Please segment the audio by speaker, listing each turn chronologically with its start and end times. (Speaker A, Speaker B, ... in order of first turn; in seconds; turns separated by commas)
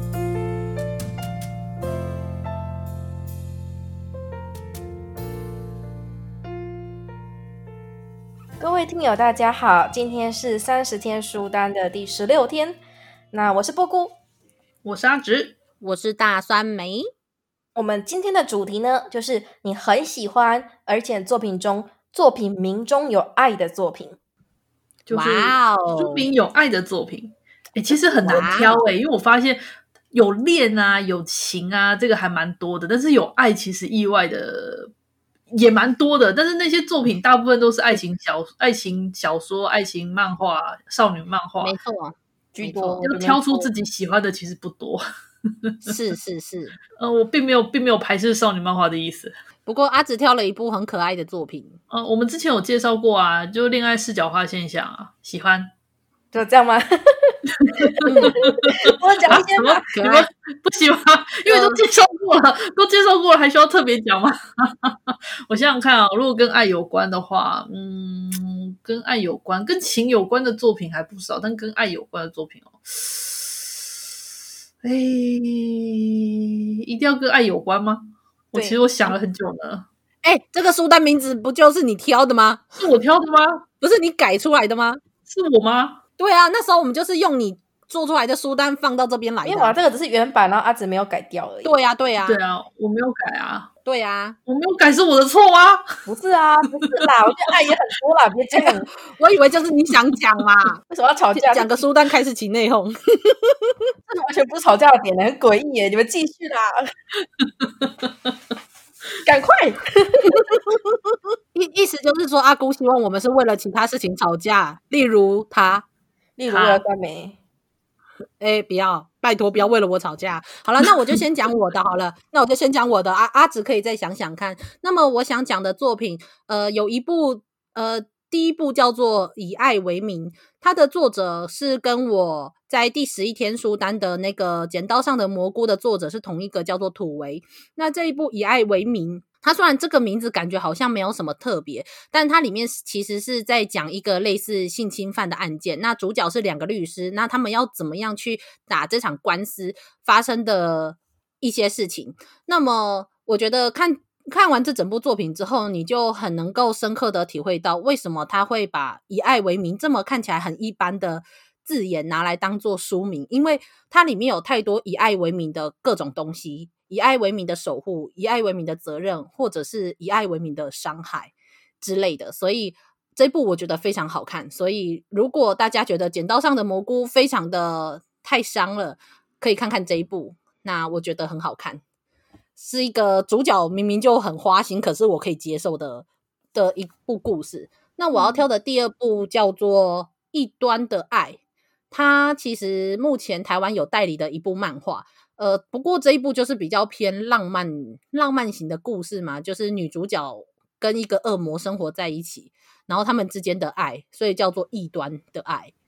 Speaker A: 8.6-12.8, Speaker A: 13.3-14.2, Speaker B: 14.8-15.6, Speaker C: 15.8-17.1, Speaker A: 17.8-24.2, Speaker B: 25.1-34.9, Speaker C: 25.1-26.3, Speaker C: 28.2-28.8, Speaker B: 35.5-41.8, Speaker C: 41.6-43.1, Speaker A: 42.5-43.7, Speaker B: 43.0-45.0, Speaker C: 45.9-46.8, Speaker B: 47.0-49.3, Speaker C: 49.7-51.8, Speaker B: 51.9-55.7, Speaker A: 56.3-57.3, Speaker B: 57.6-73.7, Speaker A: 58.0-60.0, Speaker C: 58.0-58.3, Speaker C: 60.0-60.3, Speaker B: 74.8-79.9, Speaker A: 78.5-78.8, Speaker C: 80.2-82.8, Speaker B: 82.8-83.6, Speaker C: 83.8-85.0, Speaker B: 85.3-86.0, Speaker C: 86.2-89.8, Speaker A: 89.4-91.7, Speaker C: 91.6-92.4, Speaker B: 92.2-93.7, Speaker C: 93.8-94.4, Speaker B: 94.5-95.8, Speaker A: 96.1-98.9, Speaker C: 99.1-100.8, Speaker A: 100.9-101.8, Speaker C: 101.3-103.7, Speaker A: 104.1-106.9, Speaker B: 107.4-108.3, Speaker A: 109.3-110.4, Speaker C: 111.5-115.8, Speaker A: 116.4-117.4, Speaker B: 116.5-116.8, Speaker C: 118.4-181.8, Speaker C: 182.6-191.4, Speaker B: 188.1-188.5, Speaker C: 191.9-205.7